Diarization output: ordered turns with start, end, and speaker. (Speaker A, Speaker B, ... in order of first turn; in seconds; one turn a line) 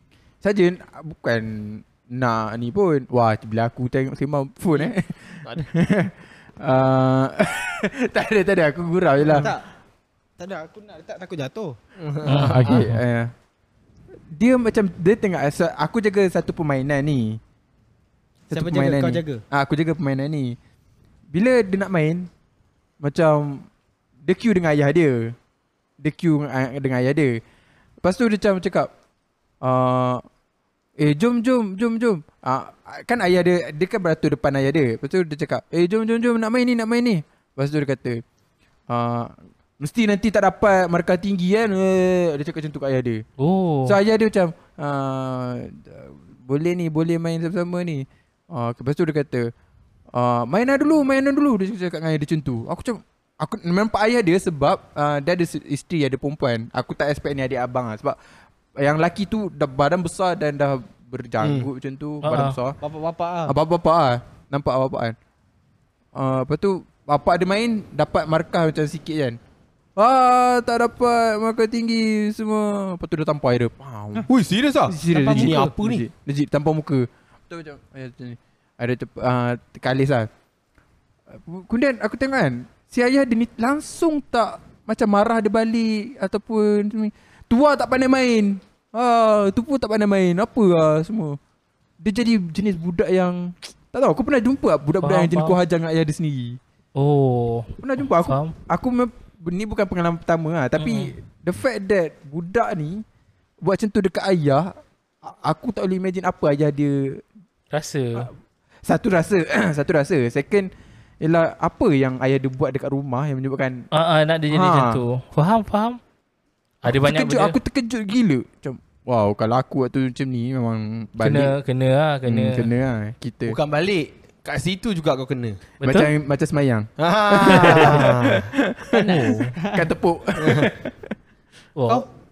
Speaker A: 0.4-9.5
Speaker B: 9.3-9.7
Speaker B: 10.4-11.8
Speaker C: 12.0-12.8
Speaker D: 12.3-13.0
Speaker A: 12.3-13.3
Speaker A: 14.3-17.4
Speaker A: 18.5-20.6
Speaker B: 18.5-19.4
Speaker A: 21.3-22.3
Speaker A: 23.0-23.7
Speaker A: 24.2-25.4
Speaker A: 26.0-27.4
Speaker A: 28.0-28.9
Speaker A: 29.6-30.2
Speaker A: 31.0-38.2
Speaker A: 38.9-43.2
Speaker D: 43.4-44.0
Speaker A: 43.9-49.5
Speaker A: 50.1-58.2
Speaker A: 58.8-62.8
Speaker C: 61.4-61.7
Speaker D: 62.2-62.6
Speaker B: 62.8-63.6
Speaker A: 63.5-65.2
Speaker A: 66.2-69.4
Speaker A: 70.0-74.3
Speaker C: 74.3-76.0
Speaker A: 74.9-80.3
Speaker B: 75.1-75.7
Speaker A: 81.3-91.4
Speaker A: 92.0-96.6
Speaker D: 95.0-95.6
Speaker D: 97.0-98.5
Speaker A: 97.8-103.0
Speaker D: 100.8-101.1
Speaker A: 103.6-107.2
Speaker D: 107.7-108.3
Speaker A: 108.8-113.9
Speaker D: 113.9-116.0
Speaker A: 114.5-115.0
Speaker D: 116.8-117.6
Speaker A: 116.8-121.5
Speaker D: 121.2-122.7
Speaker A: 122.2-123.6
Speaker C: 123.5-125.6
Speaker D: 125.8-126.1
Speaker A: 125.8-131.0
Speaker C: 127.0-128.5
Speaker D: 127.5-128.0
Speaker D: 128.9-129.5
Speaker B: 129.6-129.9
Speaker C: 130.4-130.7
Speaker D: 131.8-132.1